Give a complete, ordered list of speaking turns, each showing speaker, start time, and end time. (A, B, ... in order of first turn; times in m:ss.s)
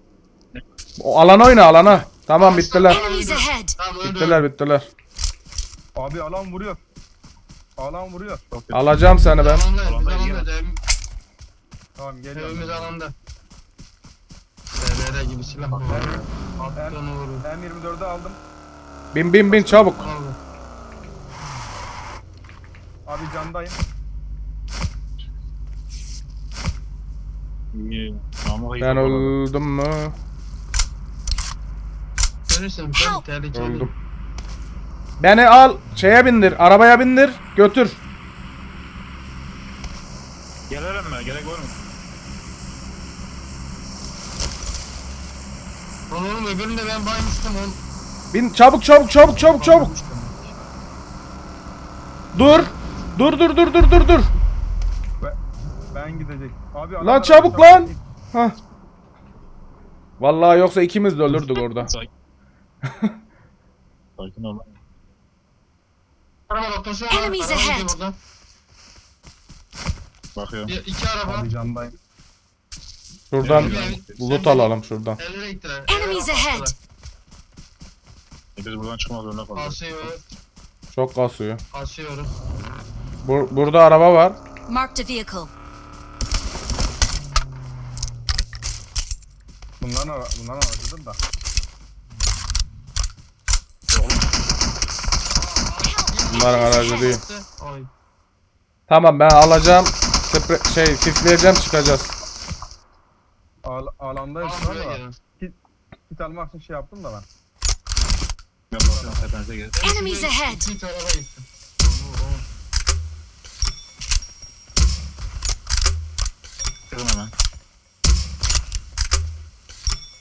0:01.0-0:03.0 A
0:02.3-0:04.5 B
0:02.8-0:03.8 C
0:04.0-0:04.9 A
0:06.0-0:06.8 D
0:07.8-0:08.4 D
0:08.5-0:09.1 E
0:08.7-0:09.7 A
0:09.3-0:10.8 B
0:09.8-0:10.5 E
0:12.0-0:13.0 D
0:12.3-0:13.1 B
0:14.7-0:17.4 B
0:15.7-0:18.4 D
0:19.1-0:20.1 A
0:19.5-0:20.4 B
0:23.1-0:23.8 D
0:27.7-0:29.4 E
0:28.8-0:30.2 A
0:32.5-0:33.9 B
0:33.0-0:33.2 C
0:33.5-0:33.9 A
0:35.2-0:38.0 A
0:40.7-0:41.7 E
0:46.1-0:47.8 B
0:48.3-0:49.9 A
0:49.3-0:50.5 B
0:52.3-0:54.3 A
0:55.9-0:58.0 D
0:57.0-0:58.6 A
1:00.2-1:01.9 A
1:01.8-1:02.1 E
1:04.2-1:04.8 E
1:06.5-1:08.2 B
1:07.1-1:07.9 C
1:10.4-1:10.7 E
1:10.7-1:11.5 B
1:11.3-1:12.0 D
1:13.3-1:15.2 A
1:13.4-1:14.2 E
1:13.4-1:16.8 B
1:15.9-1:16.7 C
1:18.6-1:20.0 E
1:19.6-1:20.2 B
1:20.9-1:21.6 A
1:21.7-1:22.3 B
1:23.2-1:24.4 A
1:24.7-1:25.5 C
1:29.8-1:31.2 D
1:35.3-1:37.9 B
1:35.9-1:37.0 C
1:36.3-1:37.2 A
1:38.9-1:42.1 A
1:43.6-1:45.6 D
1:44.4-1:45.1 B
1:46.1-1:47.3 D
1:48.7-1:49.8 E
1:48.8-1:49.3 D
1:49.8-1:52.5 B
1:49.8-1:50.7 C
1:56.9-1:57.3 E